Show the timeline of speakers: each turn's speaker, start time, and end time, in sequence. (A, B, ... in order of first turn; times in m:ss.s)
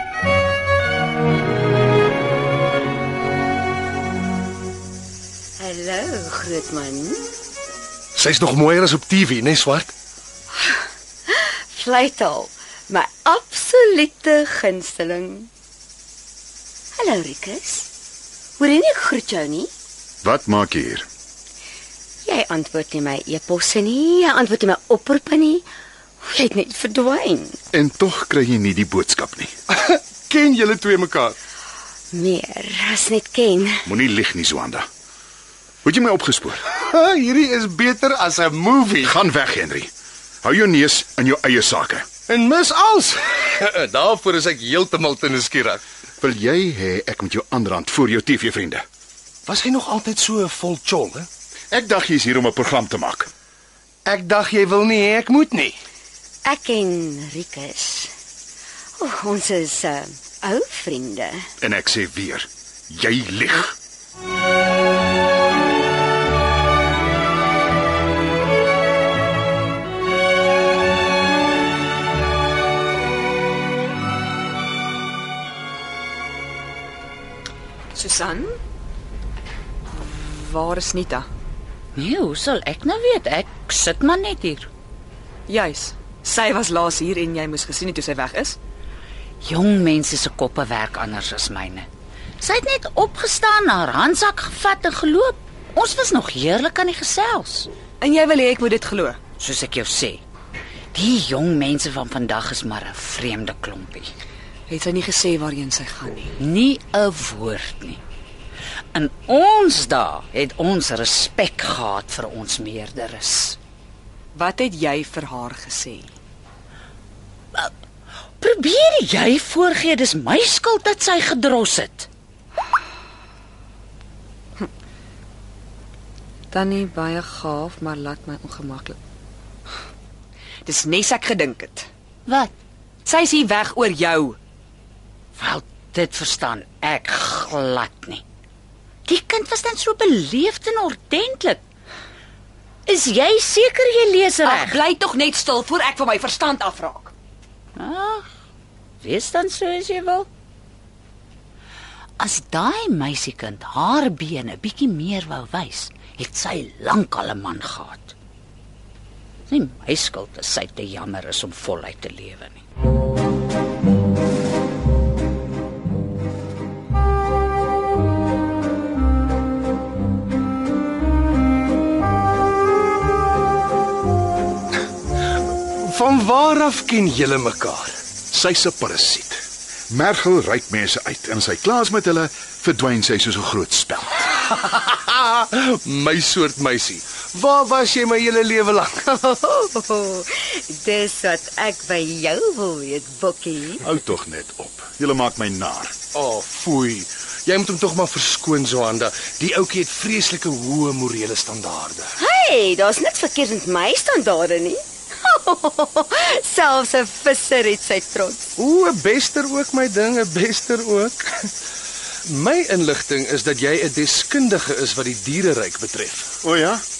0:05.6-0:07.2 A
0:08.1-0:09.9 B
0:11.3-0:15.5 A
0:17.0-0:17.9 A
0:18.6-0:19.7 A
0:20.2-0:21.1 C
0:22.2-0:25.6 A
0:26.2-0:27.6 A
0:27.7-0:29.5 C
0:29.7-0:31.4 B
0:32.1-0:33.8 A
0:33.8-0:34.9 C
0:35.8-0:36.6 C
0:36.8-0:39.2 B
0:39.0-0:39.9 C
0:40.4-0:42.0 C
0:42.3-0:45.8 B
0:46.2-0:48.8 C
0:49.4-0:51.3 B
0:51.7-0:53.3 C
0:54.1-0:55.8 B
0:56.4-0:58.1 A
0:59.0-1:01.4 A
1:01.6-1:03.8 C
1:17.9-1:18.6 D
1:19.9-1:21.3 D
1:22.0-1:24.7 E
1:25.5-1:28.6 D
1:29.4-1:31.9 E
1:32.4-1:37.7 E
1:38.0-1:39.2 D
1:39.4-1:40.2 E
1:40.9-1:44.1 E
1:44.7-1:46.3 D
1:46.4-1:48.0 E
1:48.9-1:53.6 E
1:54.3-1:56.1 D
1:58.4-2:02.1 E
2:06.5-2:09.0 D
2:10.6-2:11.9 D
2:12.3-2:12.5 E
2:13.0-2:14.4 D
2:15.4-2:18.2 E
2:19.0-2:21.6 E
2:22.8-2:24.8 E
2:24.4-2:27.1 D
2:27.8-2:28.3 E
2:29.0-2:30.3 E
2:32.2-2:38.1 E
2:39.5-2:42.6 E
2:55.7-2:58.0 B
2:58.3-3:04.3 C
3:04.5-3:09.0 B
3:09.0-3:13.8 A
3:13.8-3:15.9 C
3:16.1-3:22.1 B
3:22.2-3:28.5 A
3:28.6-3:31.5 B
3:32.2-3:36.3 B
3:36.4-3:36.8 C